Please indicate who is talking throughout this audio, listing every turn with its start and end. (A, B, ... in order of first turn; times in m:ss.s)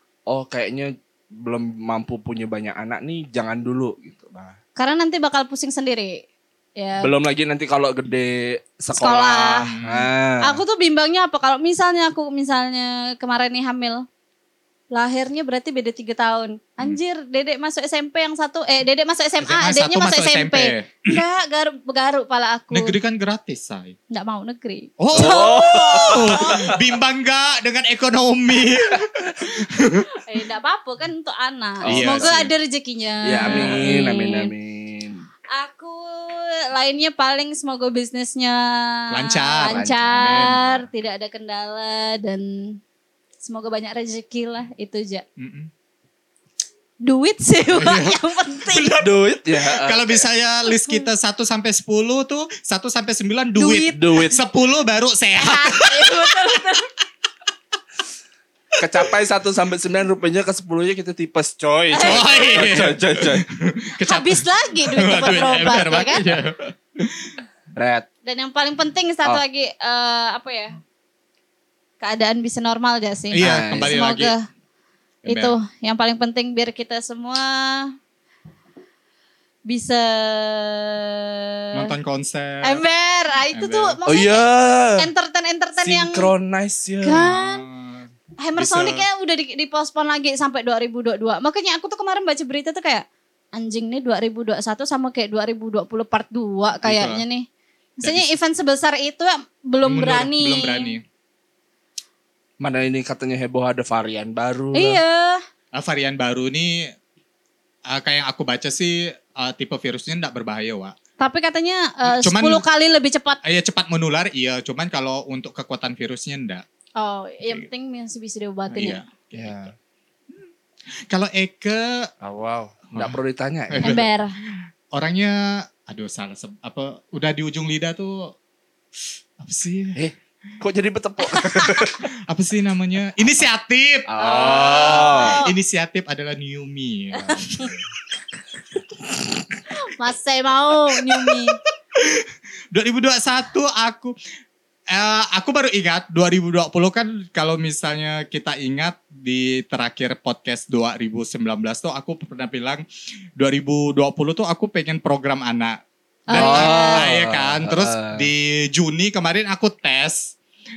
0:00.3-0:04.6 A
0:04.8-0:06.2 B
0:06.8-0:07.1 B
0:07.0-0:10.6 A
0:08.9-0:09.7 B
0:09.7-0:10.1 C
0:10.4-0:14.0 B
0:14.9-0:23.0 B
0:19.4-0:21.2 C
0:22.7-0:24.0 C
0:24.1-0:26.7 B
0:25.0-0:30.2 C
0:25.1-0:26.8 A
0:30.2-0:34.5 B
0:31.8-0:32.4 A
0:31.9-0:32.5 C
0:33.2-0:35.2 A
0:33.4-0:33.9 C
0:35.5-0:42.8 B
0:39.1-0:40.8 C
0:39.6-0:40.6 A
0:43.4-0:45.2 B
0:45.4-0:45.7 C
0:47.0-0:49.0 B
0:47.7-0:56.6 C
0:49.0-0:50.2 A
0:53.6-0:54.3 B
0:53.9-0:54.4 A
0:55.4-0:56.9 B
0:58.8-1:03.5 A
1:01.9-1:02.8 B
1:02.0-1:07.4 C
1:04.0-1:06.3 B
1:07.8-1:08.1 A
1:08.3-1:10.8 B
1:12.0-1:14.4 B
1:13.3-1:14.4 C
1:13.4-1:14.0 A
1:15.2-1:15.6 C
1:15.3-1:17.9 B
1:19.7-1:21.9 B
1:21.7-1:22.8 C
1:22.6-1:24.5 B
1:23.5-1:24.0 C
1:24.1-1:25.1 A
1:25.0-1:26.3 B
1:25.8-1:27.2 A
1:27.0-1:27.6 B
1:27.1-1:29.0 C
1:28.4-1:37.5 B
1:36.8-1:37.2 C
1:38.0-1:40.9 B
1:38.0-1:38.4 C
1:39.8-1:41.0 C
1:42.6-1:45.0 A
1:44.7-1:45.4 B
1:45.7-1:46.9 C
1:47.9-1:51.0 C
1:51.2-1:53.4 B
1:52.0-1:52.6 C
1:53.4-1:56.6 C
1:57.0-1:59.0 B
1:58.7-1:59.7 C
1:59.3-1:59.7 A
2:01.1-2:02.1 C
2:02.2-2:04.0 A
2:02.9-2:03.2 C
2:03.7-2:08.3 C
2:03.8-2:04.4 B
2:09.4-2:10.0 C
2:10.0-2:12.1 A
2:11.4-2:11.8 B
2:12.3-2:17.8 C
2:14.1-2:15.4 A
2:14.2-2:15.6 B
2:17.2-2:17.8 A
2:18.8-2:19.6 A
2:19.7-2:21.6 B
2:22.0-2:24.2 C
2:24.9-2:32.8 C
2:33.4-2:35.8 C
2:36.3-2:37.1 B
2:36.3-2:40.4 C
2:36.3-2:38.3 A